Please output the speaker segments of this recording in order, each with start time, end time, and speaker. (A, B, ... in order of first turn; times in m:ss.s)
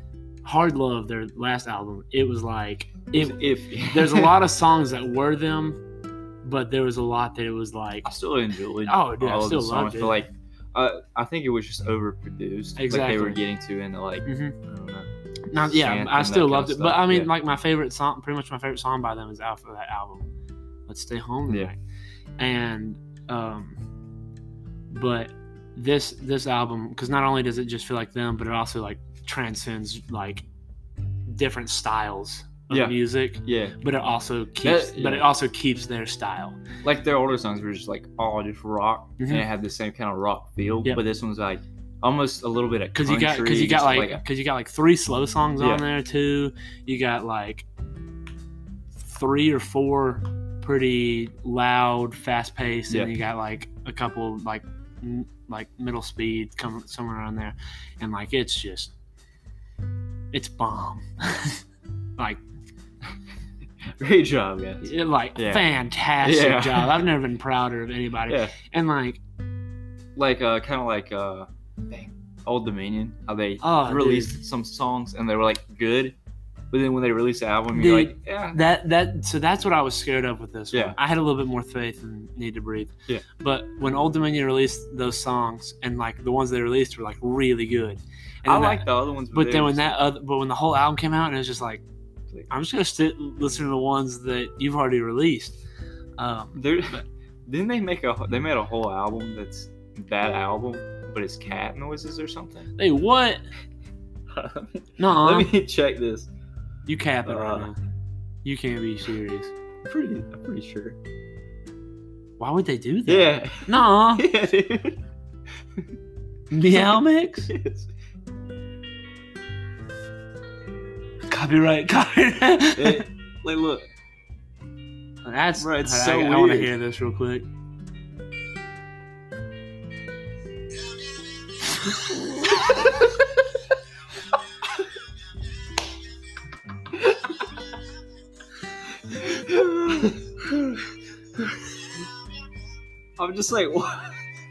0:00.4-0:05.8 A
0:03.1-0:04.4 B
0:06.4-0:08.1 A
0:08.0-0:17.3 B
0:08.9-0:10.2 A
0:12.8-0:13.4 A
0:14.2-0:14.6 A
0:15.5-0:20.3 A
0:20.9-0:21.8 A
0:22.4-0:23.8 A
0:24.9-0:30.4 A
0:31.3-0:36.6 A
0:32.7-0:33.8 B
0:34.6-0:35.3 B
0:36.8-0:44.2 B
0:39.2-0:39.4 A
0:42.9-0:47.7 A
0:45.6-0:45.8 B
0:49.0-0:58.9 A
1:00.3-1:01.6 A
1:02.2-1:02.4 A
1:04.0-1:05.6 B
1:04.8-1:09.2 A
1:06.2-1:07.0 B
1:08.3-1:08.5 B
1:10.2-1:16.2 B
1:13.6-1:14.4 A
1:16.7-1:18.6 B
1:17.7-1:31.8 A
1:28.4-1:30.0 B
1:32.5-1:35.6 A
1:36.2-1:37.0 A
1:36.6-1:42.7 B
1:42.8-1:43.4 A
1:44.3-1:46.3 B
1:45.0-1:45.5 A
1:46.9-1:47.8 A
1:47.2-1:47.7 B
1:48.4-1:49.5 A
1:49.8-1:51.0 B
1:52.4-1:54.3 A
1:53.1-1:55.0 B
1:56.5-1:57.5 A
1:56.7-1:57.9 B
2:01.3-2:03.1 A
2:02.8-2:03.8 B
2:05.2-2:07.4 A
2:05.6-2:06.7 B
2:19.1-2:20.8 B
2:23.2-2:24.2 B